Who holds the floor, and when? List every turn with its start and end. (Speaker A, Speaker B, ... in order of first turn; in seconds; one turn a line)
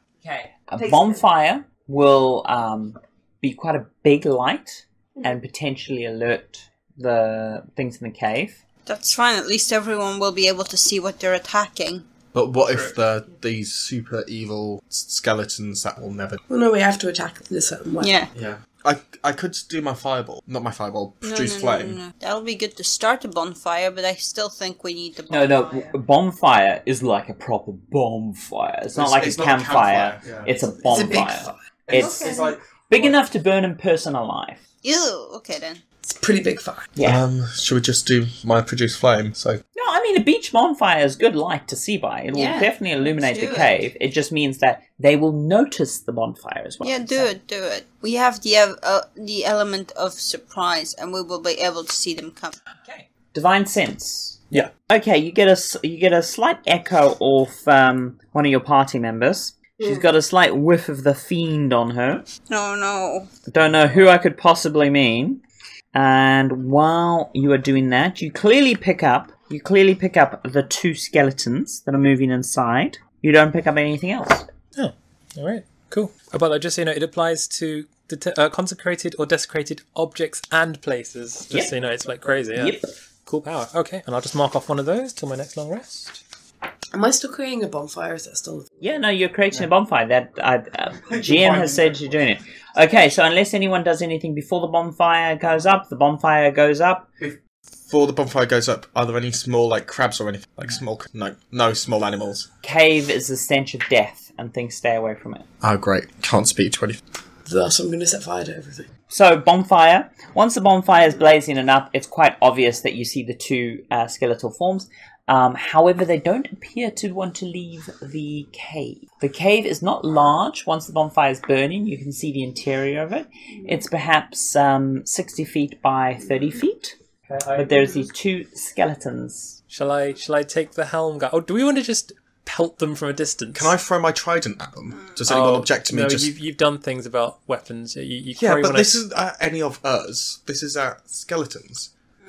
Speaker A: 0.2-8.6
Speaker B: 0.8-1.2
Speaker C: 8.9-12.1
Speaker D: 12.3-16.4
Speaker B: 16.5-18.1
Speaker C: 18.0-18.3
Speaker D: 18.3-22.0
Speaker C: 21.2-25.9
Speaker A: 25.3-32.4
Speaker D: 28.9-30.6
Speaker B: 30.9-31.6
Speaker D: 31.9-33.2
Speaker C: 31.9-32.5
Speaker A: 32.9-34.6
Speaker C: 34.8-35.8
Speaker B: 36.0-36.9
Speaker A: 37.0-37.2
Speaker D: 37.0-39.6
Speaker A: 39.8-47.3
Speaker C: 42.3-43.8
Speaker C: 46.8-52.6
Speaker A: 52.9-62.3
Speaker C: 62.5-63.3
Speaker A: 63.5-65.4
Speaker A: 65.9-74.5
Speaker E: 74.8-86.2
Speaker A: 82.5-82.9
Speaker B: 86.9-88.8
Speaker A: 88.8-97.1
Speaker D: 91.1-92.1
Speaker D: 97.2-102.5
Speaker A: 102.6-105.5
Speaker D: 105.6-107.0
Speaker B: 107.5-108.9
Speaker A: 109.1-127.0
Speaker E: 127.3-128.0
Speaker A: 127.5-129.6
Speaker E: 129.7-133.7
Speaker D: 133.5-136.3
Speaker E: 135.3-139.0
Speaker D: 138.4-141.9